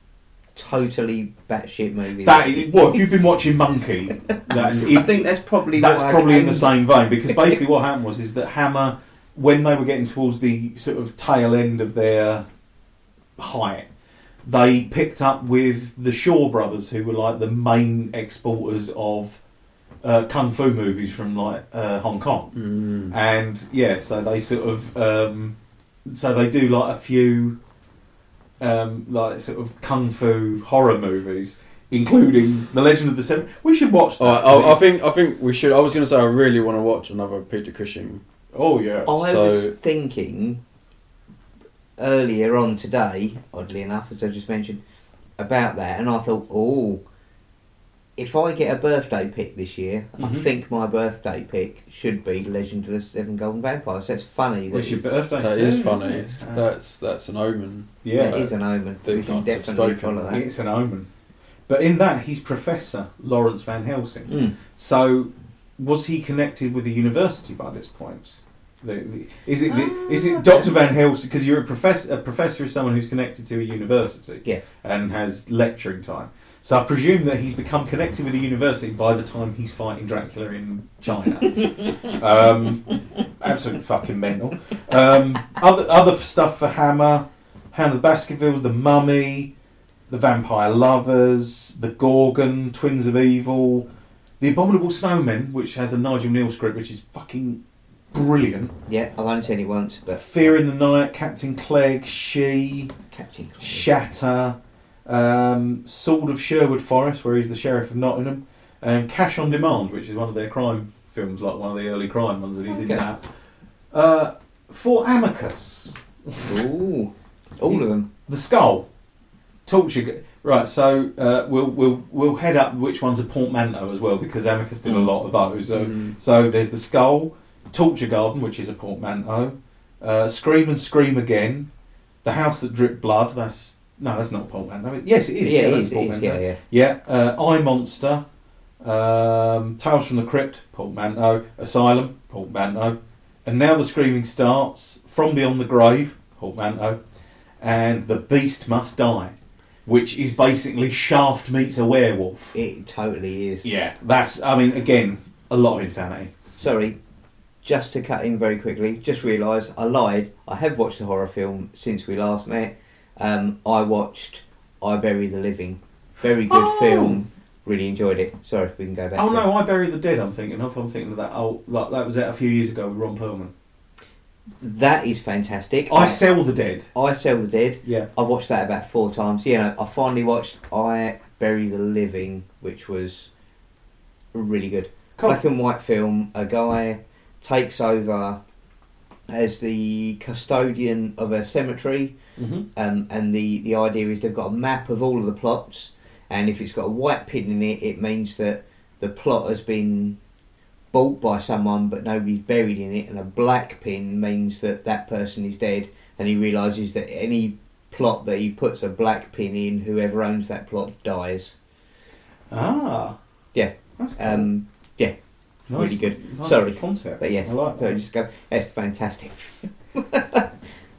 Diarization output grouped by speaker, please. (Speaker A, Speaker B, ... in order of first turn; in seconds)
Speaker A: 0.5-3.4, 4.7-6.8, 39.1-40.6, 42.0-44.8, 45.4-47.0, 48.2-55.2, 58.1-60.5, 64.3-64.5, 69.7-70.7, 98.9-100.5, 103.1-103.9, 112.7-113.1, 116.5-118.1, 135.4-136.6, 152.5-153.7, 156.6-157.0, 157.6-169.4, 174.6-176.2, 176.9-183.3, 184.3-188.4, 189.3-192.2, 192.7-200.2, 200.9-211.5, 213.5-215.1, 215.7-220.5
Speaker B: 2.2-12.5, 13.4-13.9, 14.4-19.4, 20.0-27.6, 28.6-34.8, 38.5-39.1, 50.2-50.5, 54.7-56.7, 58.0-58.5, 60.3-61.1, 61.7-89.5, 90.1-93.9, 94.4-97.6, 98.1-98.7, 100.1-102.9, 103.6-113.3, 113.9-116.6, 117.7-118.9, 119.7-131.7, 132.2-138.2, 138.8-147.0, 147.6-152.6, 153.6-156.3, 166.5-167.2, 169.1-173.5, 175.9-176.9, 192.4-192.7, 212.5-213.2, 214.0-214.5, 215.7-218.0
Speaker C: 4.5-4.8, 22.5-23.1, 34.2-38.2, 39.2-39.7, 55.4-60.3, 125.7-126.1